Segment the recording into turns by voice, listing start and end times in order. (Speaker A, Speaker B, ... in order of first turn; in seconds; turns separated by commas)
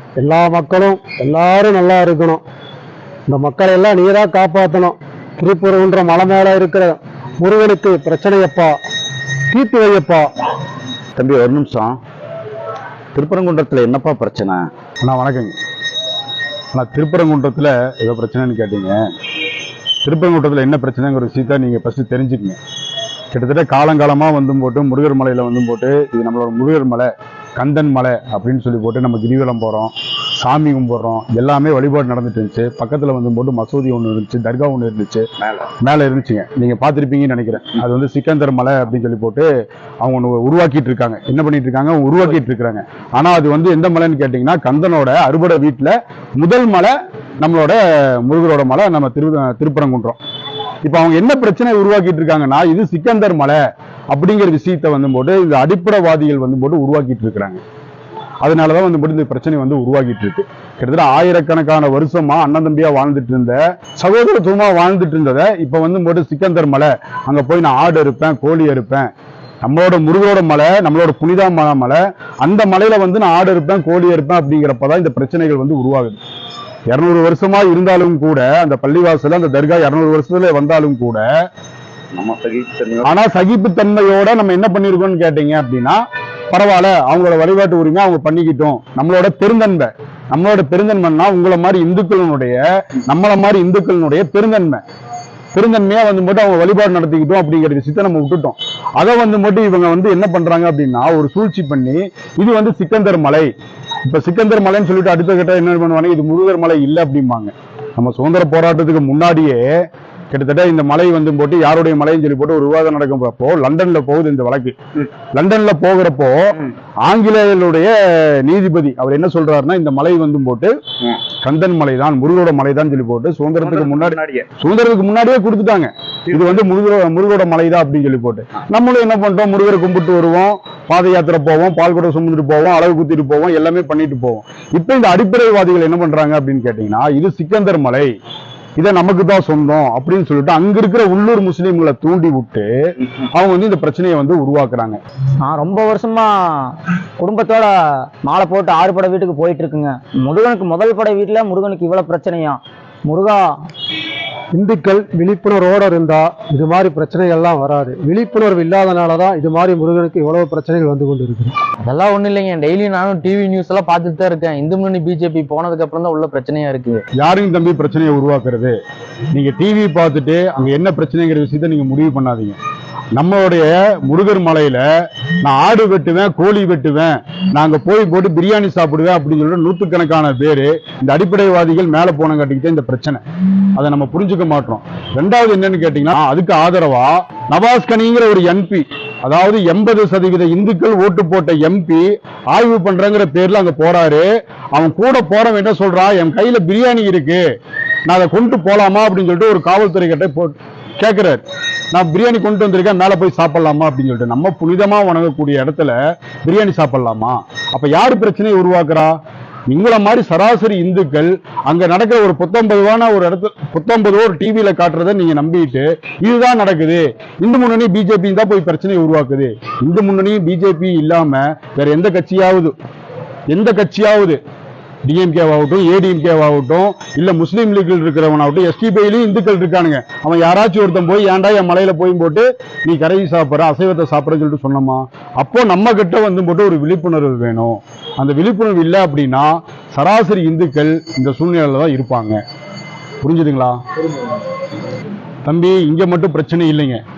Speaker A: 0.1-2.4, Speaker A: 3.3-8.8, Speaker A: 9.5-10.3, Speaker B: 11.2-12.0, Speaker B: 13.1-14.6, Speaker C: 15.0-15.5, Speaker C: 16.7-18.9, Speaker C: 20.0-22.6, Speaker C: 23.3-35.3, Speaker C: 35.8-39.5, Speaker C: 40.0-50.2, Speaker C: 50.8-53.6, Speaker C: 54.1-57.6, Speaker C: 58.4-69.1, Speaker C: 69.6-76.2, Speaker C: 76.9-81.2, Speaker B: 82.1-83.1, Speaker C: 83.0-94.8, Speaker C: 95.5-103.5, Speaker C: 104.0-109.7, Speaker C: 110.3-114.8, Speaker C: 115.3-120.7, Speaker C: 121.4-138.1, Speaker B: 123.6-124.5, Speaker C: 138.8-142.7, Speaker C: 143.3-145.0, Speaker D: 145.4-146.3, Speaker D: 147.2-147.7, Speaker D: 148.2-153.5, Speaker A: 154.5-161.5, Speaker E: 161.8-167.0, Speaker C: 167.2-168.8, Speaker C: 169.3-172.6, Speaker C: 173.2-174.8, Speaker C: 175.4-183.2, Speaker C: 183.7-197.4, Speaker C: 198.1-201.4, Speaker C: 201.9-209.1, Speaker C: 209.7-222.7, Speaker C: 223.5-224.4, Speaker C: 225.1-242.4, Speaker C: 243.2-243.8, Speaker C: 245.4-247.0